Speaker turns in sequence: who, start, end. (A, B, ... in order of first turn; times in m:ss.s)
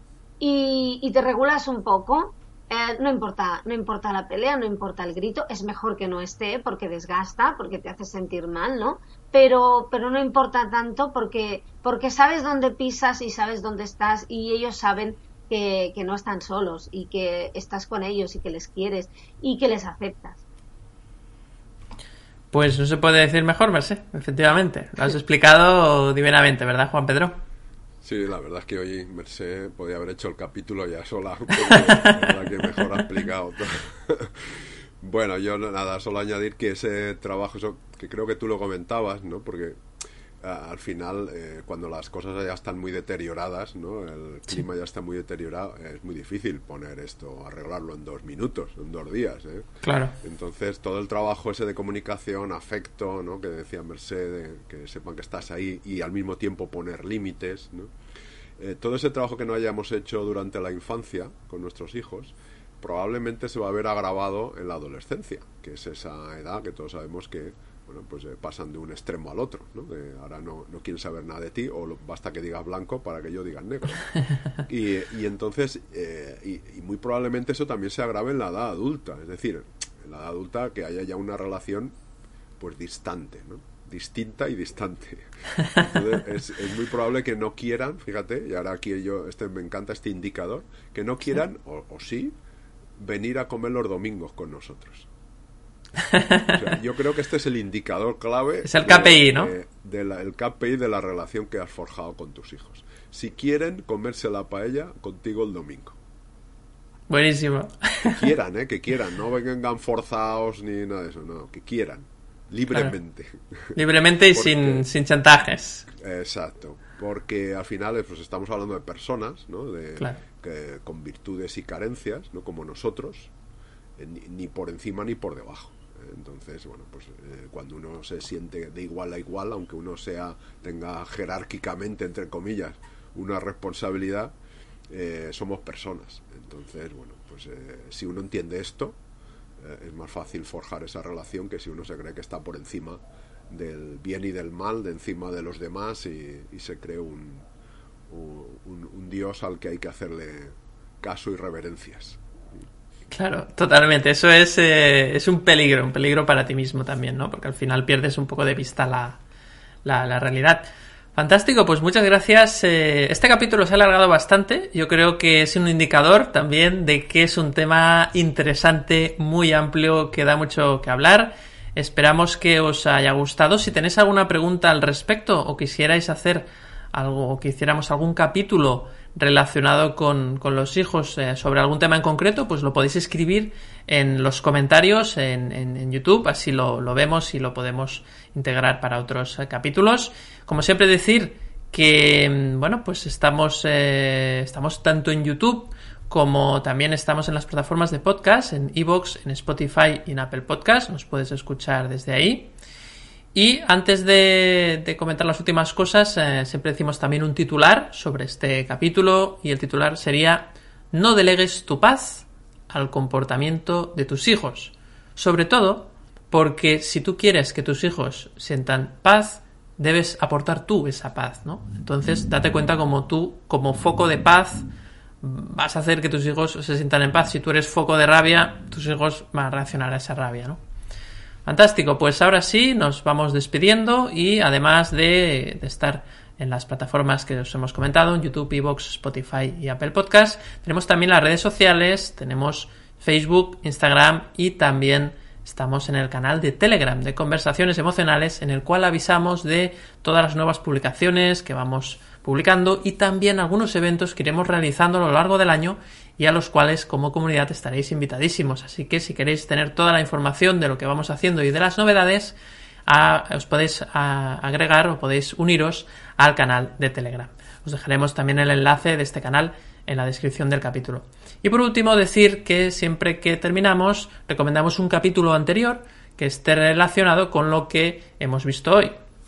0:00.4-0:20.4 A
0:22.5-0:27.4 B
0:28.0-0:39.8 C
0:31.7-0:32.2 B
0:40.4-0:49.7 C
0:49.8-0:50.2 B
0:50.2-0:57.9 C
0:58.6-1:22.0 C
1:22.6-1:32.4 C
1:33.0-1:35.1 C
1:36.1-1:36.5 B
1:36.5-1:46.0 C
1:38.6-1:39.5 B
1:47.1-1:48.3 B
1:48.0-1:53.8 C
1:53.8-1:55.9 B
1:54.3-1:54.8 C
1:55.9-2:03.3 C
2:04.0-2:14.3 C
2:14.9-2:19.0 C
2:19.6-2:27.5 C
2:28.1-2:32.2 C
2:33.1-2:39.2 B
2:39.8-3:22.5 B
3:23.3-3:44.6 B
3:45.2-3:50.6 B
3:51.4-4:22.4 B
4:22.9-4:39.0 B